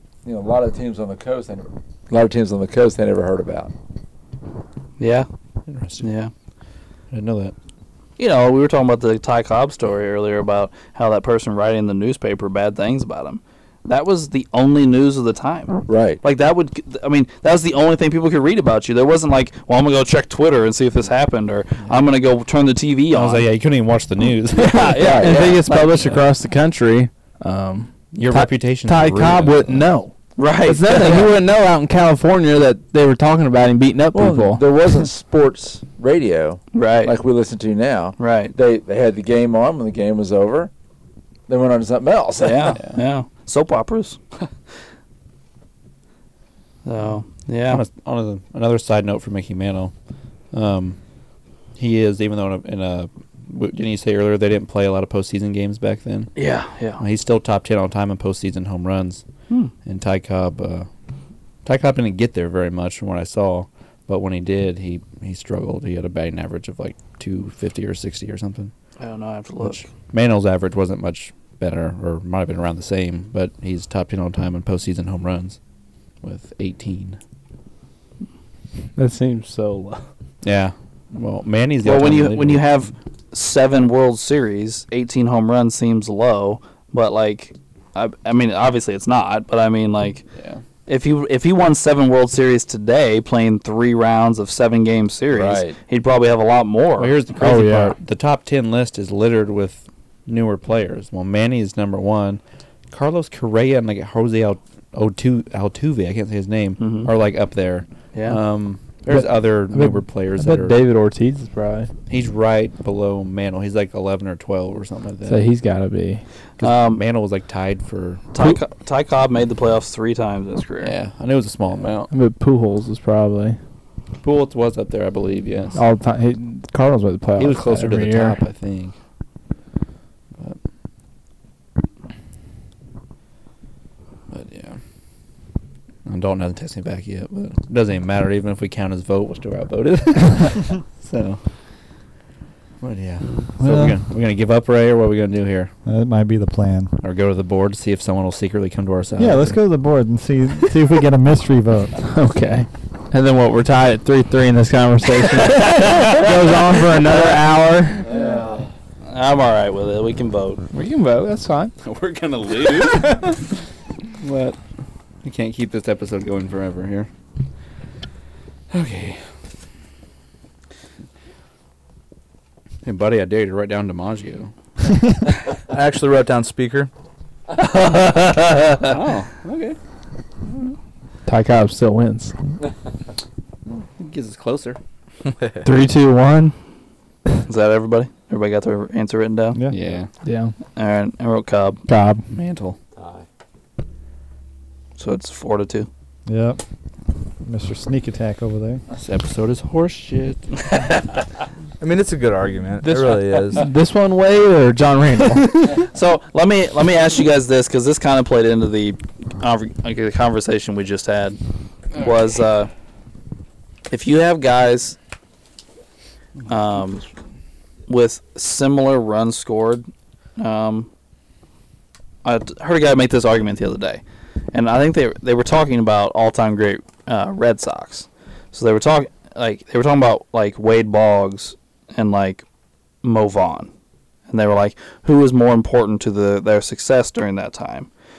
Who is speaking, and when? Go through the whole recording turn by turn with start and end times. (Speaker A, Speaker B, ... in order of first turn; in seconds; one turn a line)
Speaker A: 0.2-3.7
Speaker B: 5.0-5.3
Speaker C: 5.7-6.0
Speaker B: 6.0-6.3
Speaker C: 7.1-7.5
Speaker B: 8.2-23.5
Speaker A: 15.9-16.2
Speaker C: 23.1-25.2
Speaker B: 24.5-26.1
Speaker A: 24.9-25.6
Speaker D: 25.0-34.6
Speaker C: 28.1-29.9
Speaker B: 30.4-31.2
Speaker A: 30.9-31.3
Speaker A: 34.1-40.7
Speaker B: 36.7-37.1
Speaker B: 38.2-38.5
Speaker A: 41.5-42.8
Speaker B: 42.4-44.4
Speaker B: 46.8-47.8
Speaker C: 47.7-49.9
Speaker C: 50.5-51.0
Speaker C: 51.8-56.3
Speaker B: 56.4-57.0
Speaker C: 57.0-59.2
Speaker C: 59.8-60.9
Speaker C: 61.6-68.7
Speaker B: 69.0-69.8
Speaker C: 69.6-75.6
Speaker C: 76.2-77.2
Speaker D: 79.0-80.0
Speaker C: 80.4-82.7
Speaker B: 81.8-90.2
Speaker C: 90.3-90.6
Speaker B: 90.9-97.2
Speaker A: 95.3-95.8
Speaker C: 97.0-110.8
Speaker D: 97.4-98.0
Speaker B: 106.8-107.1
Speaker B: 108.1-108.4
Speaker D: 109.0-111.9
Speaker C: 112.1-115.5
Speaker D: 115.2-116.2
Speaker C: 116.6-118.2
Speaker B: 116.6-117.0
Speaker B: 118.3-120.9
Speaker C: 120.8-122.1
Speaker D: 122.1-123.6
Speaker C: 124.2-125.8
Speaker D: 125.7-128.4
Speaker C: 127.4-128.9
Speaker C: 134.3-134.8
Speaker C: 136.1-141.4
Speaker C: 142.8-145.7
Speaker E: 143.6-144.0
Speaker E: 145.8-146.9
Speaker C: 147.0-149.6
Speaker E: 149.2-152.1
Speaker D: 152.0-158.0
Speaker A: 158.1-158.7
Speaker C: 158.1-158.5
Speaker B: 159.1-160.6
Speaker D: 160.7-161.7
Speaker C: 161.8-163.4
Speaker C: 164.2-164.6
Speaker C: 165.2-167.1
Speaker C: 168.7-169.2
Speaker C: 172.8-174.5
Speaker F: 175.7-176.9
Speaker B: 177.6-178.9
Speaker C: 178.8-179.8
Speaker D: 181.2-182.6
Speaker C: 183.7-184.8
Speaker F: 185.3-185.7
Speaker D: 185.6-186.5
Speaker B: 187.4-189.6
Speaker E: 189.5-189.8
Speaker C: 189.7-190.1
Speaker D: 190.2-190.5
Speaker B: 190.8-191.8
Speaker D: 191.9-192.2
Speaker C: 192.3-192.8
Speaker A: 192.9-193.2
Speaker B: 195.0-195.9
Speaker E: 196.2-196.6
Speaker E: 197.4-198.8
Speaker C: 198.9-200.5
Speaker F: 201.8-203.7
Speaker D: 202.8-205.8
Speaker B: 205.8-211.4
Speaker B: 211.9-212.7
Speaker B: 213.9-215.0
Speaker B: 216.5-217.1
Speaker B: 217.9-220.9
Speaker B: 222.2-232.4
Speaker B: 233.0-233.7
Speaker B: 234.3-237.9